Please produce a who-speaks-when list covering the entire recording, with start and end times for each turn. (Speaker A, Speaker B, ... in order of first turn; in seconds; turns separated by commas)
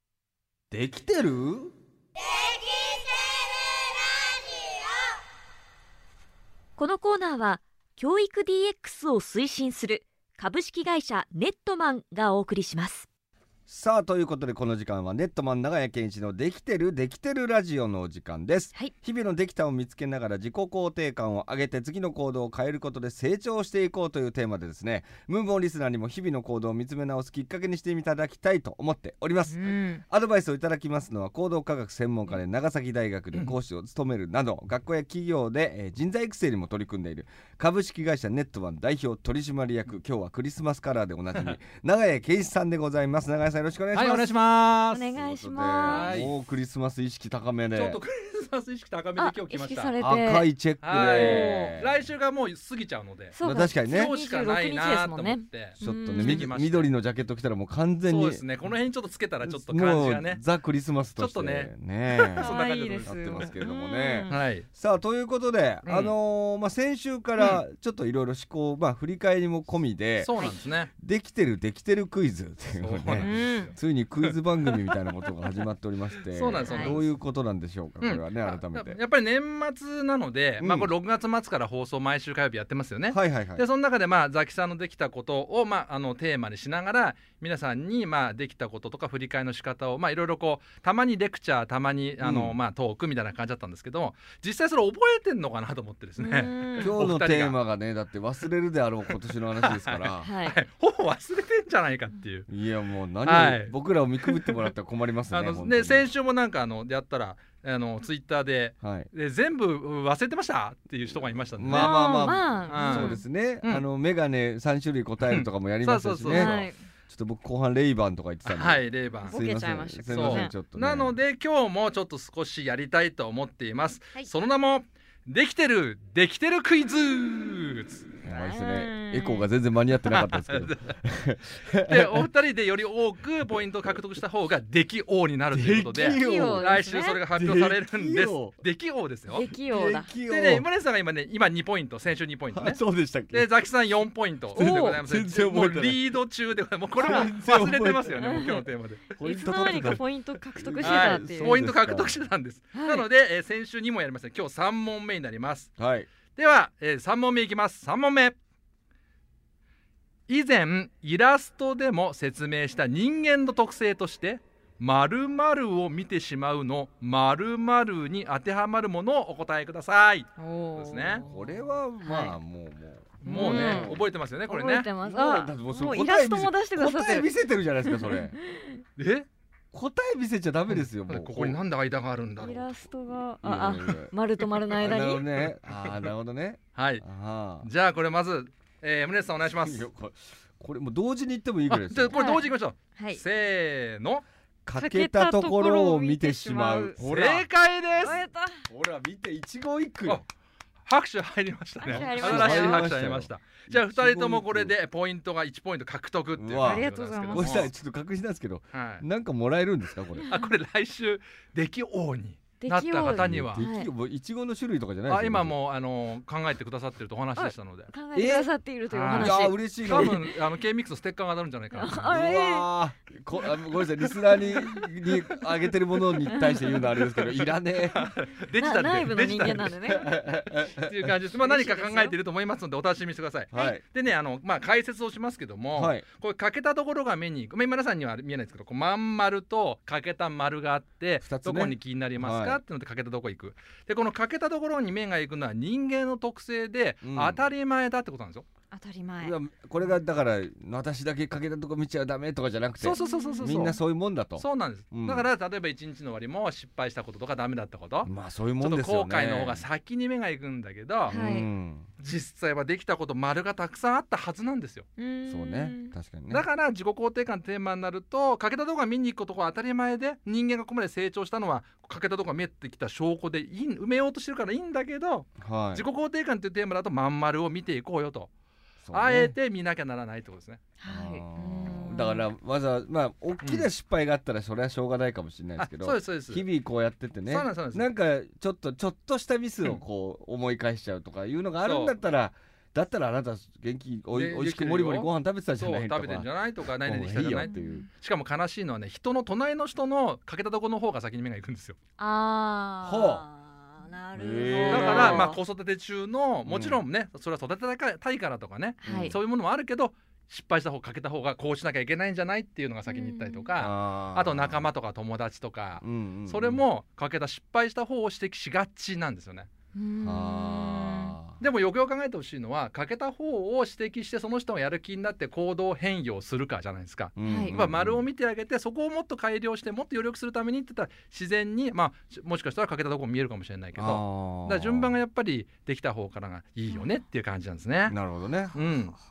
Speaker A: 0.7-1.7, Speaker B: 6.8-13.1, Speaker A: 13.7-44.3, Speaker B: 29.5-30.0, Speaker C: 43.9-45.1, Speaker B: 44.9-46.2, Speaker A: 45.1-48.0, Speaker C: 45.8-46.4, Speaker C: 47.7-49.9, Speaker B: 49.2-50.5, Speaker A: 50.0-52.0, Speaker C: 50.8-56.9, Speaker D: 51.0-51.3, Speaker B: 51.2-51.7, Speaker B: 53.3-56.5, Speaker A: 53.4-54.1, Speaker A: 55.8-58.5, Speaker C: 58.1-60.4, Speaker A: 59.4-79.0, Speaker C: 61.2-61.7, Speaker C: 62.3-63.6, Speaker B: 62.4-64.4, Speaker C: 64.3-64.7, Speaker C: 65.8-66.2, Speaker C: 70.2-70.9, Speaker C: 72.8-74.9, Speaker B: 73.2-73.7, Speaker C: 76.3-77.1, Speaker B: 76.6-77.0, Speaker C: 78.0-97.6, Speaker A: 80.6-80.9, Speaker A: 83.1-83.7, Speaker A: 92.2-92.6, Speaker D: 96.6-96.9, Speaker A: 96.8-100.3, Speaker C: 99.6-102.5, Speaker A: 102.5-106.1, Speaker C: 103.2-104.7, Speaker C: 105.3-113.8, Speaker A: 108.8-109.1, Speaker A: 111.5-121.2, Speaker B: 111.7-113.2, Speaker C: 115.2-116.6, Speaker B: 116.3-116.8, Speaker C: 118.5-119.4, Speaker B: 119.2-120.5, Speaker C: 120.1-128.1, Speaker A: 128.2-132.3, Speaker B: 128.3-129.5, Speaker C: 130.0-130.9, Speaker C: 131.8-139.5, Speaker A: 135.5-138.6, Speaker B: 136.2-137.2, Speaker B: 139.3-140.1, Speaker A: 139.7-140.7, Speaker C: 140.3-149.1, Speaker A: 142.5-143.6, Speaker A: 144.5-146.2, Speaker B: 144.6-145.0, Speaker A: 146.9-152.2, Speaker B: 148.2-148.6, Speaker B: 149.1-151.6, Speaker C: 150.8-155.7, Speaker B: 152.7-153.0, Speaker A: 155.8-156.1, Speaker C: 156.4-158.4, Speaker C: 160.3-171.3, Speaker B: 170.4-171.5, Speaker A: 171.2-174.1, Speaker B: 172.0-172.4, Speaker C: 173.2-174.9, Speaker B: 173.3-173.9, Speaker B: 174.5-177.3, Speaker A: 175.0-178.4, Speaker C: 179.0-179.3, Speaker A: 179.7-181.6, Speaker C: 180.7-182.7, Speaker B: 182.4-185.2, Speaker A: 183.4-184.2, Speaker C: 184.4-186.1, Speaker A: 184.8-187.7, Speaker C: 186.8-187.0, Speaker C: 187.6-189.9, Speaker A: 189.4-192.2, Speaker C: 191.7-194.2, Speaker B: 192.1-193.2, Speaker A: 194.7-200.2, Speaker B: 194.8-197.0, Speaker C: 197.0-198.2, Speaker B: 198.0-198.7, Speaker C: 200.8-207.7, Speaker B: 201.8-202.9, Speaker A: 201.9-204.8, Speaker A: 206.3-210.4, Speaker B: 206.6-207.5, Speaker C: 208.7-209.1, Speaker C: 210.3-213.7, Speaker B: 212.6-213.9, Speaker A: 213.1-215.6, Speaker C: 215.1-217.9, Speaker B: 217.4-219.6, Speaker A: 218.1-218.5, Speaker C: 218.9-222.3, Speaker A: 219.1-220.3, Speaker D: 219.9-220.2, Speaker B: 221.7-222.7, Speaker A: 221.8-228.1, Speaker B: 226.3-226.6, Speaker C: 227.8-229.9, Speaker B: 228.6-230.1, Speaker A: 229.4-231.1, Speaker C: 230.8-248.5, Speaker B: 231.4-232.2, Speaker A: 233.5-233.8, Speaker A: 235.7-236.1, Speaker A: 241.2-242.6, Speaker A: 247.0-247.4, Speaker B: 248.7-249.3, Speaker A: 249.2-255.3, Speaker C: 252.8-253.8, Speaker C: 254.4-261.2, Speaker A: 258.1-259.6, Speaker B: 261.1-261.5, Speaker A: 261.1-261.9, Speaker C: 262.0-264.9, Speaker B: 265.0-265.9, Speaker A: 265.3-266.5, Speaker C: 266.3-278.3, Speaker A: 275.4-275.8, Speaker A: 278.8-279.3, Speaker C: 278.9-280.6, Speaker B: 280.8-282.2, Speaker A: 280.9-297.9, Speaker C: 283.4-283.7, Speaker C: 285.6-286.5, Speaker C: 287.3-287.9, Speaker C: 291.6-291.9, Speaker C: 294.1-301.8, Speaker D: 297.5-297.8, Speaker D: 302.0-303.1, Speaker A: 302.8-303.3, Speaker B: 303.7-305.4, Speaker A: 304.1-305.4, Speaker D: 304.3-305.3, Speaker C: 304.7-319.5, Speaker A: 306.4-306.8, Speaker B: 308.8-309.1, Speaker A: 308.8-309.2, Speaker A: 313.6-314.7, Speaker A: 315.8-316.6, Speaker B: 319.8-321.2, Speaker A: 320.0-321.4, Speaker C: 321.4-338.0, Speaker A: 327.2-328.1, Speaker B: 327.2-327.6, Speaker A: 333.8-335.0, Speaker A: 337.9-338.6, Speaker C: 338.5-339.0